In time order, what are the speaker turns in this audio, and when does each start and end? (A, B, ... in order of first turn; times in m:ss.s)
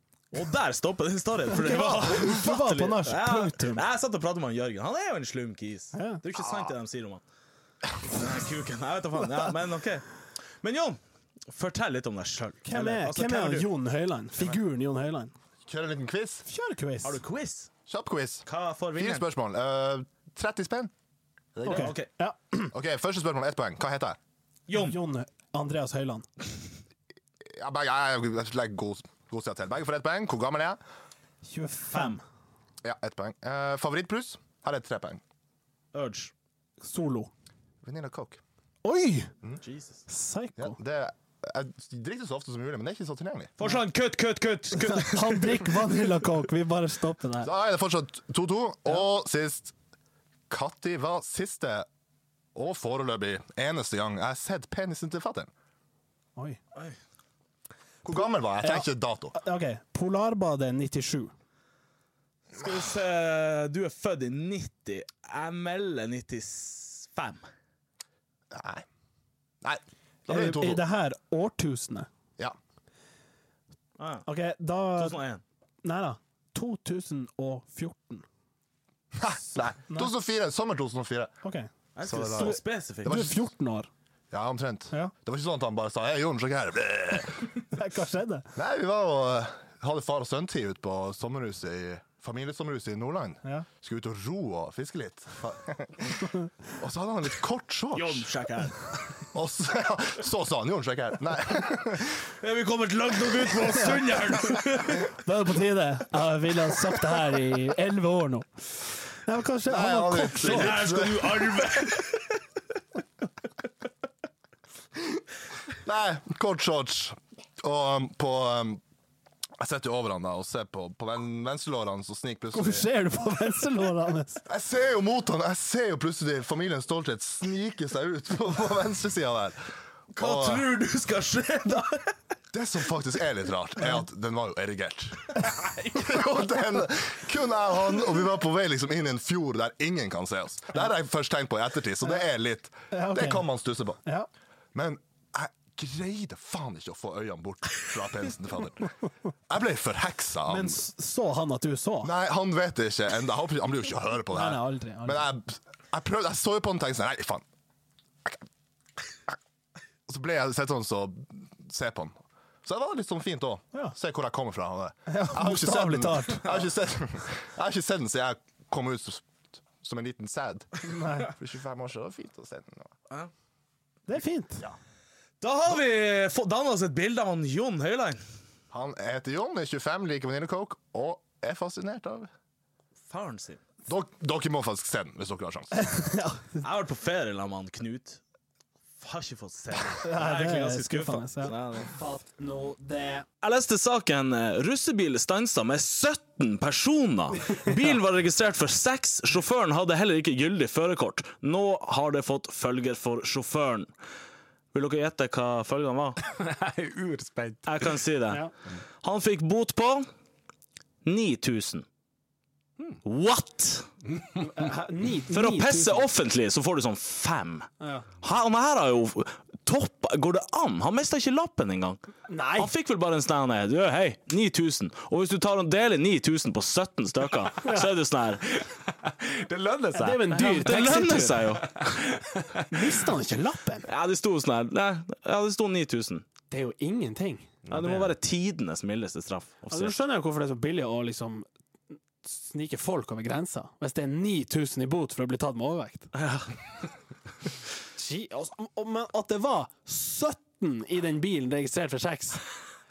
0:00.3-0:07.2 A
0:01.5-0:03.8 B
0:05.9-0:06.2 B
0:08.0-0:11.0 A
0:11.5-0:13.7 A
0:12.6-0:15.3 B
0:15.6-0:16.4 C
0:16.4-0:17.2 B
0:17.0-0:17.7 A
0:17.9-0:20.9 C
0:18.4-0:19.2 A
0:21.5-0:21.9 C
0:21.6-0:22.1 A
0:21.7-0:22.7 B
0:22.7-0:24.2 C
0:24.7-0:25.0 A
0:24.7-0:26.2 B
0:27.5-0:30.8 C
0:31.4-0:32.2 B
0:31.9-0:32.2 A
0:32.8-0:35.2 C
0:35.9-0:36.3 A
0:36.8-0:37.3 B
0:37.8-0:38.4 C
0:38.8-0:39.3 B
0:39.6-0:40.0 A
0:40.1-0:40.8 B
0:40.6-0:43.5 C
0:43.6-0:45.8 A
0:44.7-0:47.5 B
0:47.4-0:49.7 C
0:50.5-0:51.9 C
0:52.5-0:55.5 C
0:58.0-0:59.4 C
0:58.2-1:01.3 B
1:02.5-1:07.4 A
1:08.5-1:08.8 C
1:09.6-1:10.8 C
1:10.3-1:12.1 B
1:14.0-1:14.3 A
1:14.2-1:15.2 B
1:15.0-1:15.4 A
1:15.8-1:18.2 B
1:19.2-1:21.3 C
1:21.4-1:21.7 B
1:22.0-1:23.2 A
1:22.0-1:23.4 C
1:22.4-1:23.9 B
1:24.3-1:27.5 C
1:27.7-1:28.5 B
1:28.6-1:38.3 C
1:37.9-1:39.0 A
1:39.3-1:42.1 C
1:42.4-1:45.0 A
1:45.2-1:48.6 B
1:49.2-1:50.8 B
1:49.7-1:51.7 C
1:50.4-1:52.2 A
1:55.8-1:58.8 C
1:59.6-2:02.9 C
2:02.5-2:04.4 B
2:04.5-2:09.6 C
2:10.1-2:10.6 C
2:10.1-2:12.1 A
2:12.5-2:24.0 C
2:22.9-2:23.4 B
2:24.7-2:28.9 C
2:29.5-2:30.8 C
2:30.5-2:32.1 B
2:32.0-2:37.4 C
2:34.3-2:35.3 B
2:40.1-2:52.9 C
2:45.1-2:46.5 B
2:50.8-2:51.3 B
2:54.1-2:54.6 B
2:55.4-2:58.2 A
2:58.7-3:02.3 C
3:03.1-3:03.6 A
3:03.9-3:05.9 C
3:05.8-3:06.6 B
3:06.6-3:08.2 A
3:09.0-3:12.0 A
3:10.0-3:13.2 B
3:13.4-3:23.9 A
3:24.7-3:26.2 A
3:26.3-3:28.0 D
3:27.6-3:28.5 A
3:29.0-3:30.0 A
3:31.0-3:31.8 A
3:33.0-3:33.9 A
3:34.4-3:36.1 B
3:35.3-3:37.7 A
3:38.2-3:42.0 A
3:42.3-3:42.7 B
3:42.6-3:48.4 A
3:49.0-3:50.4 D
3:49.9-3:51.4 B
3:50.3-3:51.7 A
3:51.6-3:52.6 D
3:52.7-3:53.9 B
3:53.9-3:56.2 A
3:56.5-3:57.5 B
3:57.6-3:58.1 D
3:57.7-3:59.9 A
3:59.7-4:01.5 B
4:02.2-4:06.1 B
4:06.1-4:06.5 A
4:08.0-4:12.4 B